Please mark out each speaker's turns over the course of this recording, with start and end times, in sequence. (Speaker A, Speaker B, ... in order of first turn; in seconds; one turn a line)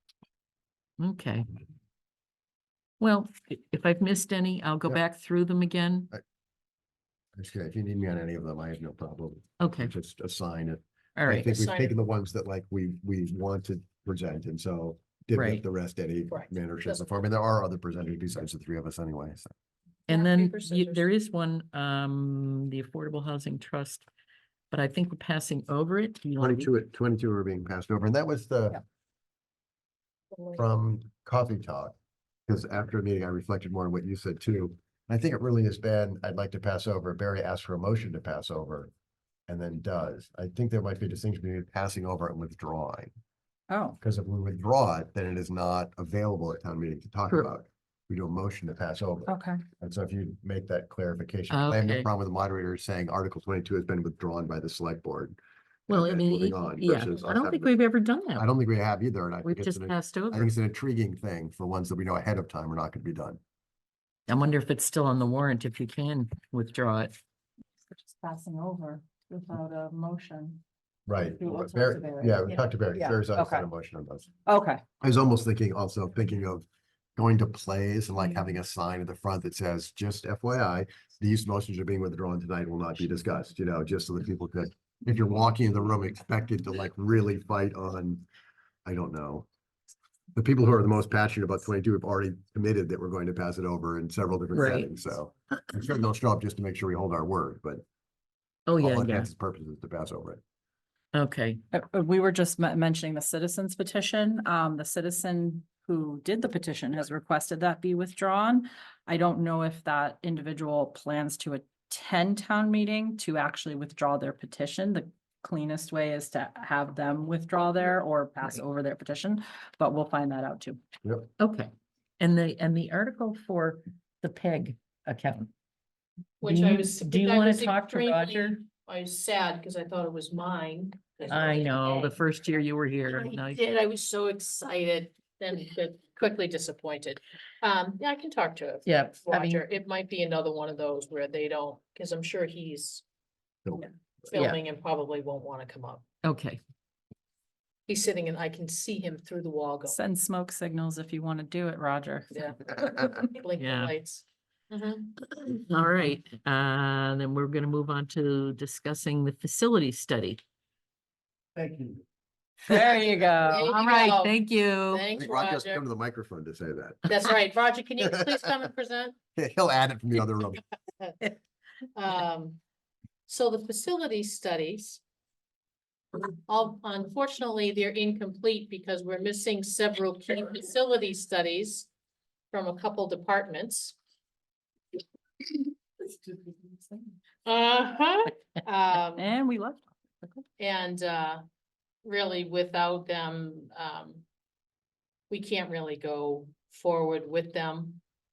Speaker A: 1.0-1.5
Speaker A: 3.0-6.1
Speaker B: 7.4-19.5
Speaker A: 9.6-9.9
Speaker A: 11.2-11.5
Speaker C: 11.4-11.9
Speaker A: 15.3-15.6
Speaker C: 16.3-17.1
Speaker A: 20.1-24.1
Speaker C: 20.1-21.1
Speaker A: 24.7-26.7
Speaker B: 26.4-28.8
Speaker B: 30.6-32.0
Speaker B: 32.5-38.9
Speaker B: 39.5-43.1
Speaker D: 43.7-44.0
Speaker B: 44.0-55.4
Speaker D: 49.3-49.6
Speaker A: 51.5-52.1
Speaker B: 55.9-57.7
Speaker A: 55.9-58.5
Speaker B: 58.4-63.4
Speaker A: 59.4-60.5
Speaker A: 64.3-67.2
Speaker D: 67.9-70.6
Speaker B: 71.1-74.3
Speaker D: 71.4-73.7
Speaker D: 74.5-74.8
Speaker B: 75.0-76.7
Speaker B: 77.2-88.2
Speaker B: 88.8-89.5
Speaker B: 90.3-97.8
Speaker A: 94.5-94.9
Speaker A: 98.7-99.3
Speaker B: 98.8-100.4
Speaker A: 101.1-101.6
Speaker D: 101.7-120.8
Speaker A: 121.4-125.5
Speaker C: 126.4-132.2
Speaker A: 126.4-128.6
Speaker A: 131.3-133.6
Speaker C: 133.1-143.0
Speaker A: 138.9-139.6
Speaker C: 144.2-146.1
Speaker A: 144.3-144.6
Speaker A: 146.2-146.6
Speaker C: 147.9-150.0
Speaker D: 149.9-153.2
Speaker C: 152.3-155.1
Speaker A: 153.6-153.9
Speaker A: 155.2-160.4
Speaker B: 161.6-162.0
Speaker D: 162.7-163.6
Speaker A: 162.7-163.0
Speaker C: 163.4-164.4
Speaker A: 163.6-165.1
Speaker C: 164.9-165.8
Speaker B: 165.2-167.1
Speaker C: 167.1-169.2
Speaker B: 168.0-168.5
Speaker B: 169.3-170.6
Speaker C: 172.0-172.6
Speaker C: 173.3-175.0
Speaker C: 176.5-181.9
Speaker C: 182.5-184.0
Speaker C: 187.4-189.3
Speaker D: 189.2-190.4
Speaker C: 190.6-191.4
Speaker C: 192.0-194.2
Speaker C: 195.3-198.0